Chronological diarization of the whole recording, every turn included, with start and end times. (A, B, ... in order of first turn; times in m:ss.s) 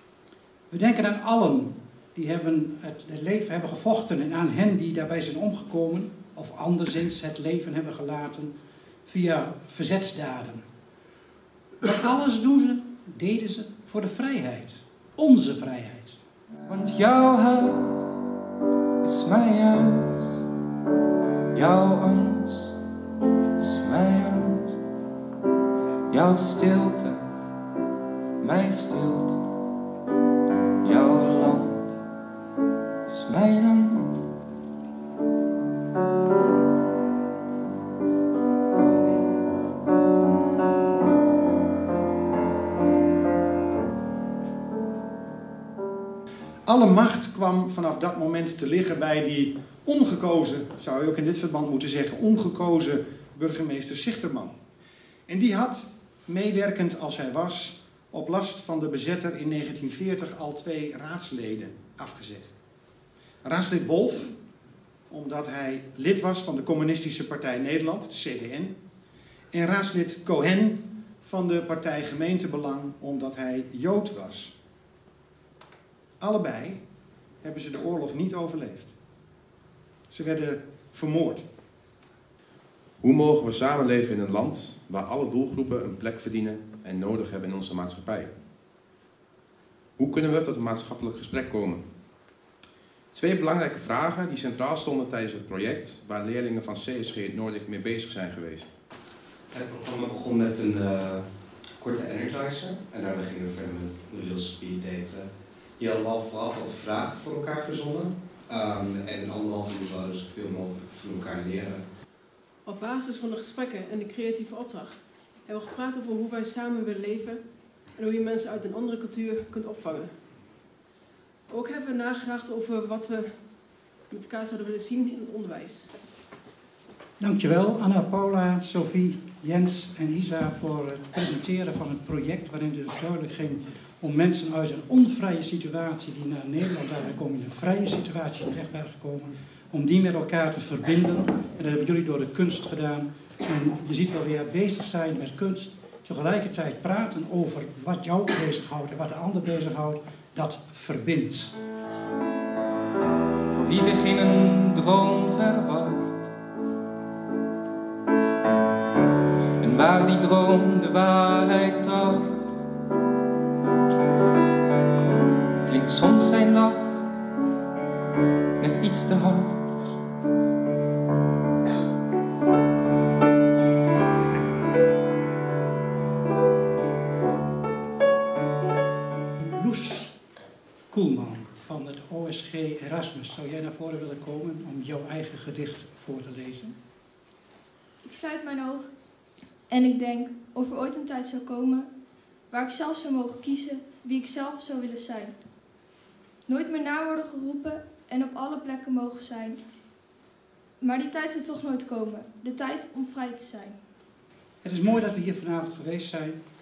0:00.7-0:08.5 A
0:09.0-0:10.6 A
0:11.8-0:16.2 A
0:16.6-0:18.0 B
0:19.0-0:20.3 B
0:21.5-0:22.8 B
0:23.6-0:24.7 B
0:26.1-0:27.2 B
0:28.4-0:29.4 B
0:30.8-0:32.0 B
0:33.1-0:34.2 B
0:46.7-0:54.5 C
0:55.3-1:02.5 C
1:03.4-1:04.4 C
1:05.1-1:08.7 C
1:09.5-1:14.5 C
1:16.2-1:16.8 C
1:17.4-1:18.9 C
1:20.1-1:21.4 C
1:23.0-1:28.3 D
1:30.0-1:31.8 D
1:33.1-1:38.8 D
1:39.5-1:51.9 E
1:52.7-1:54.9 F
1:55.5-1:57.4 F
1:58.0-2:00.1 F
2:01.5-2:03.3 F
2:04.1-2:05.9 F
2:07.2-2:31.6 A
2:33.5-2:36.3 B
2:39.6-2:42.5 B
2:45.6-2:47.1 B
2:48.6-2:49.7 B
2:59.6-3:00.1 A
3:00.9-3:06.8 A
3:08.0-3:08.9 G
3:09.7-3:11.9 G
3:12.5-3:15.4 G
3:16.5-3:19.6 G
3:20.8-3:23.8 G
3:24.6-3:26.4 A